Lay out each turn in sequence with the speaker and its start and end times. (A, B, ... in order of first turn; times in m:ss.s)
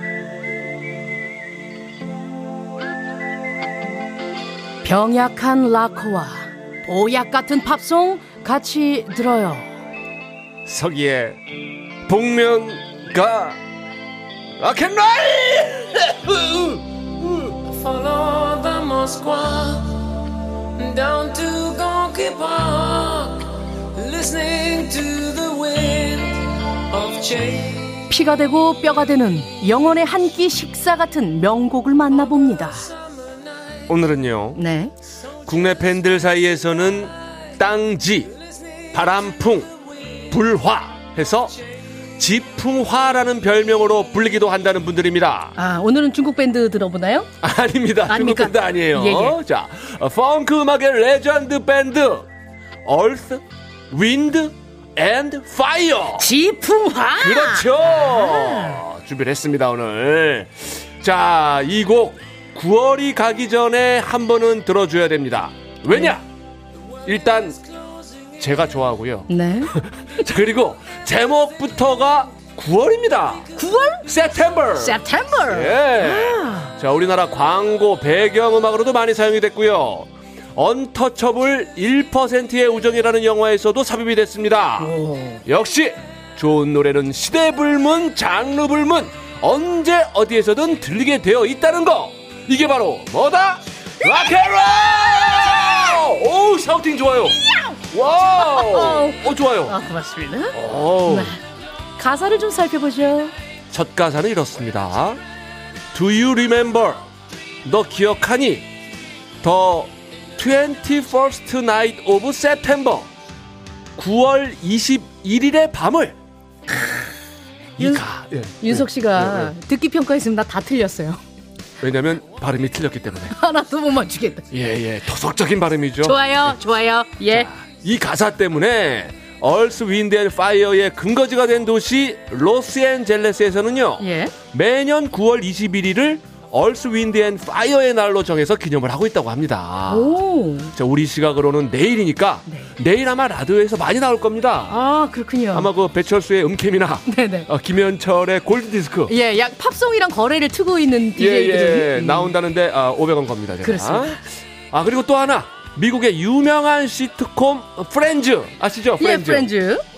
0:04.8-0:09.8 A
0:10.7-0:13.6 B
0:14.6-0:17.6 B
0:17.7-0:28.0 C
0:28.1-0:32.9 A
0:33.0-0:33.9 C
0:33.9-0:34.6 B
0:34.6-0:34.9 A
0:35.4-0:38.4 B
0:38.9-0:39.7 B
0:40.3-0:41.6 B
0:42.2-0:45.6 B
0:45.6-0:47.3 A
0:47.4-0:52.3 B
0:48.1-0:49.4 A
0:52.8-0:56.3 B
0:56.2-0:58.8 A
0:57.2-1:06.2 B
1:05.9-1:06.2 A
1:07.0-1:07.6 B
1:08.4-1:13.5 B
1:09.3-1:09.8 A
1:13.6-1:14.1 A
1:14.0-1:39.8 B
1:14.8-1:16.7 A
1:24.8-1:25.4 A
1:38.3-1:41.4 A
1:40.5-1:41.4 B
1:42.0-1:43.4 A
1:43.7-1:45.2 B
1:45.9-1:47.0 B
1:47.6-1:48.7 B
1:49.4-1:53.1 B
1:54.0-1:56.2 B
1:57.8-1:59.5 B
1:57.8-1:58.1 A
1:58.6-2:01.2 A
2:01.8-2:03.3 B
2:03.3-2:04.5 A
2:04.5-2:06.6 B
2:06.0-2:07.5 A
2:07.3-2:20.2 B
2:14.0-2:14.4 A
2:19.9-2:20.7 A
2:20.7-2:24.8 B
2:24.7-2:25.7 A
2:25.5-2:29.1 B
2:27.1-2:27.5 A
2:29.1-2:32.4 A
2:31.2-2:39.5 B
2:33.6-2:34.2 A
2:39.0-2:39.8 A